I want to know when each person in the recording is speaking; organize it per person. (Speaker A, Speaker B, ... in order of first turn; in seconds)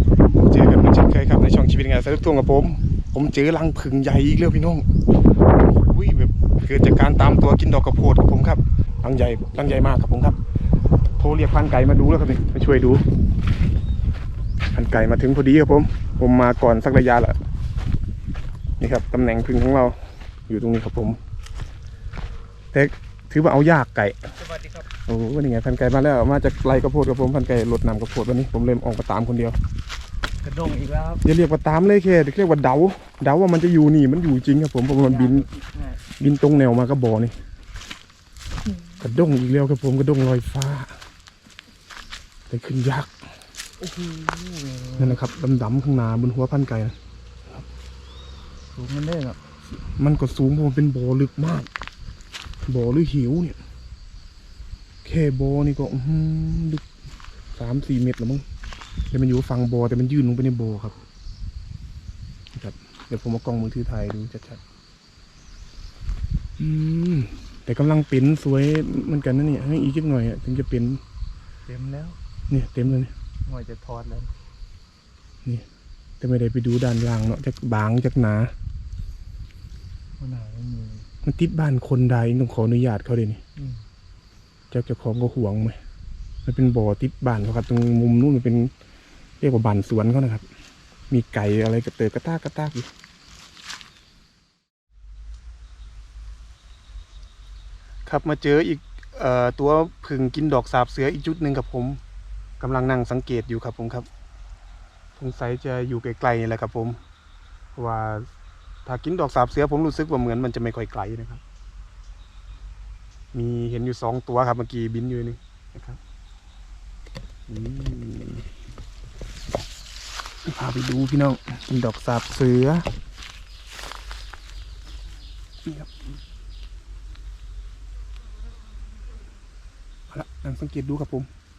Speaker A: 0.3-4.8, 5.6-10.3, 11.2-13.0, 14.7-17.4, 18.8-19.9, 20.5-21.2, 22.7-24.2, 25.1-29.6, 31.2-35.5, 36.2-37.3, 39.0-40.9, 42.5-43.1, 45.0-46.9, 50.0-51.7, 52.7-53.6, 55.0-56.8, 57.5-58.4, 59.1-61.0, 62.5-64.6, 66.6-71.0, 72.5-73.1, 76.2-78.5, 81.2-83.4, 84.7-85.8, 86.4-88.7, 89.4-90.4, 91.1-92.9, 98.0-102.0, 102.6-104.0, 105.2-107.0, 107.7-108.3, 108.8-111.4, 113.3-116.0, 117.5-118.5, 120.4-122.8, 125.6-125.9, 130.1-131.3
Speaker B: 24.5-24.8, 30.4-31.2, 35.0-36.0, 43.8-45.2, 48.7-49.4, 71.7-72.2, 73.5-74.3, 80.2-81.1